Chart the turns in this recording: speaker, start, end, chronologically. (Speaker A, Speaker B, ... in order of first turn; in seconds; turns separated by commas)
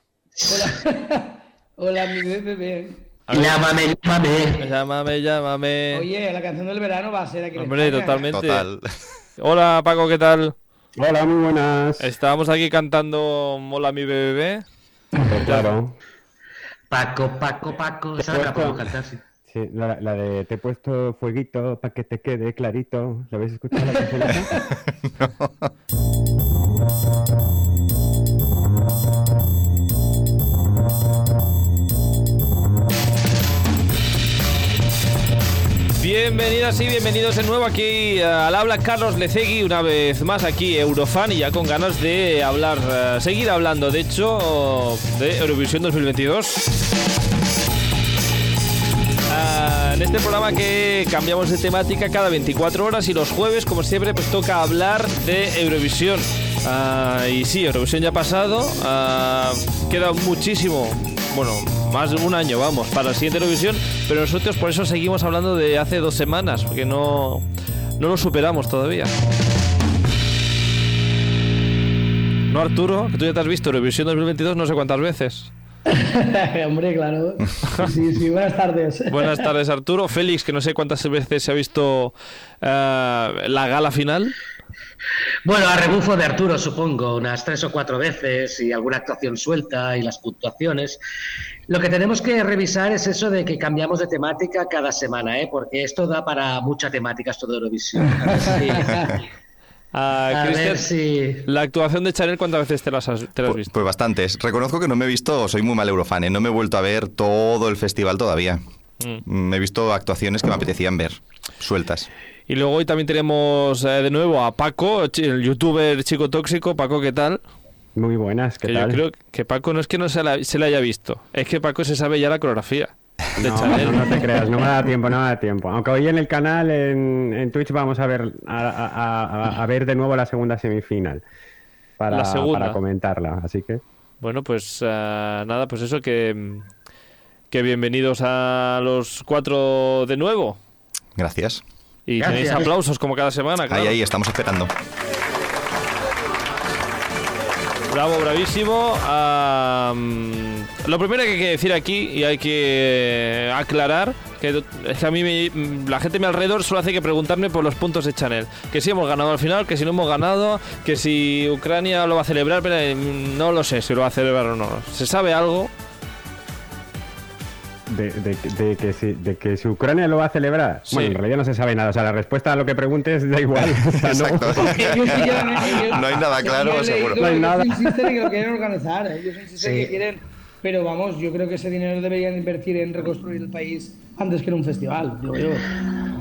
Speaker A: 0.4-0.7, Speaker B: 0.5-3.2, Speaker C: 3.3-3.6, Speaker A: 3.3-4.7, Speaker C: 4.5-6.0, Speaker B: 5.9-8.3, Speaker C: 7.5-8.7, Speaker D: 8.3-8.9, Speaker C: 9.4-10.6, Speaker E: 11.0-12.1, Speaker C: 12.0-14.6, Speaker E: 15.2-15.9, Speaker C: 15.3-15.8, Speaker A: 16.9-19.2, Speaker E: 18.2-18.8, Speaker E: 19.5-24.6, Speaker D: 24.5-25.7, Speaker C: 36.0-46.6, Speaker C: 49.3-67.4, Speaker C: 68.0-69.1, Speaker C: 72.5-75.5, Speaker B: 75.9-79.5, Speaker C: 79.1-84.3, Speaker A: 85.4-91.0, Speaker A: 91.7-99.3, Speaker B: 98.0-99.1, Speaker C: 99.9-100.8, Speaker A: 100.3-101.5, Speaker C: 101.4-103.7, Speaker D: 103.5-108.6, Speaker D: 109.2-112.1, Speaker C: 112.5-117.4, Speaker E: 118.0-119.0, Speaker C: 118.6-124.4, Speaker E: 123.4-131.2, Speaker E: 132.0-133.8, Speaker C: 132.1-132.8, Speaker C: 134.2-136.7, Speaker C: 137.5-140.6, Speaker D: 141.2-141.6, Speaker C: 142.1-144.0, Speaker A: 142.2-142.7, Speaker D: 143.7-144.7, Speaker C: 147.9-165.7, Speaker E: 167.9-176.2, Speaker C: 170.9-171.2, Speaker D: 173.7-177.3, Speaker B: 174.6-185.8, Speaker E: 177.2-178.3, Speaker A: 179.6-180.0